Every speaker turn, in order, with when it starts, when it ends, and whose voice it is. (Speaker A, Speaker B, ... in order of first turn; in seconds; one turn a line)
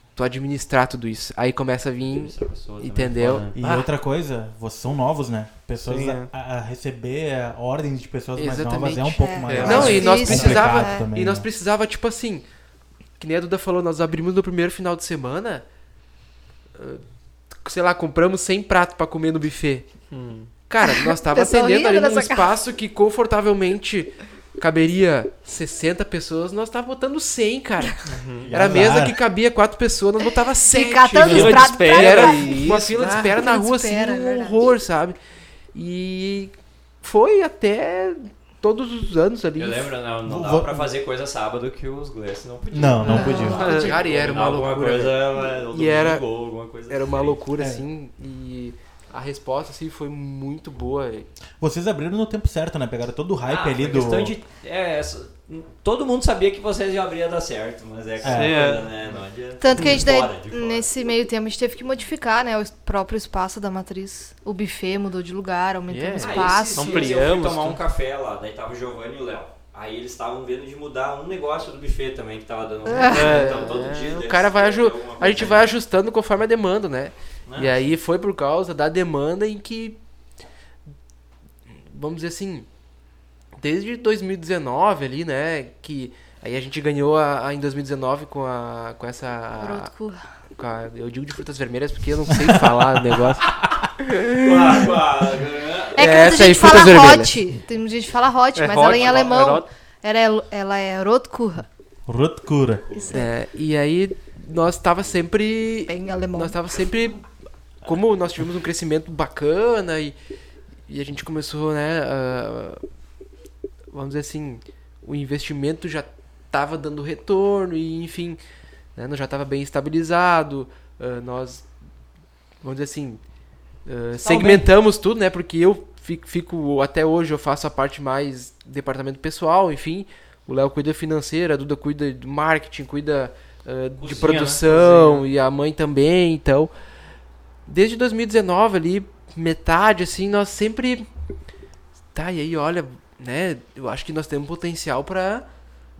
Speaker A: 0.1-3.9
Speaker B: 2.0-3.5
Speaker C: 3.5-11.5
Speaker D: 5.9-6.3
Speaker A: 8.3-12.4
Speaker E: 9.1-11.1
Speaker D: 9.5-10.2
Speaker A: 13.2-15.6
Speaker A: 16.7-17.0
Speaker A: 17.6-19.9
Speaker D: 20.1-20.5
Speaker A: 20.7-35.2
Speaker E: 20.8-22.5
Speaker D: 28.0-28.5
Speaker B: 28.4-28.9
Speaker C: 28.5-29.2
Speaker E: 30.6-34.7
Speaker D: 31.2-33.1
Speaker A: 35.7-39.9
Speaker B: 39.5-47.4
Speaker C: 40.2-40.9
Speaker C: 42.7-43.7
Speaker E: 43.0-43.9
Speaker A: 43.2-46.2
Speaker D: 43.5-44.0
Speaker A: 46.9-51.3
Speaker C: 47.6-47.8
Speaker C: 51.6-54.3
Speaker B: 53.5-60.9
Speaker C: 58.2-58.7
Speaker D: 58.2-58.9
Speaker E: 59.6-67.1
Speaker B: 66.2-75.7
Speaker D: 66.7-67.8
Speaker E: 72.9-73.2
Speaker A: 73.0-80.0
Speaker D: 73.1-73.7
Speaker B: 77.5-77.8
Speaker A: 81.8-82.7
Speaker A: 83.6-89.9
Speaker E: 89.6-90.2
Speaker A: 90.5-95.0
Speaker C: 92.3-93.6
Speaker B: 94.3-96.8
Speaker A: 96.0-97.4
Speaker E: 96.0-101.7
Speaker D: 98.5-99.7
Speaker B: 98.8-99.3
Speaker C: 102.1-102.8
Speaker B: 102.8-103.2
Speaker E: 103.0-103.3
Speaker A: 103.1-107.2
Speaker E: 105.9-106.5
Speaker A: 107.8-110.1
Speaker A: 110.9-112.8
Speaker A: 113.9-118.4
Speaker A: 118.9-121.7
Speaker A: 122.6-123.2
Speaker A: 123.8-136.7
Speaker B: 124.2-124.7
Speaker B: 134.0-134.6
Speaker D: 134.6-135.2
Speaker A: 137.7-141.1
Speaker A: 142.1-145.4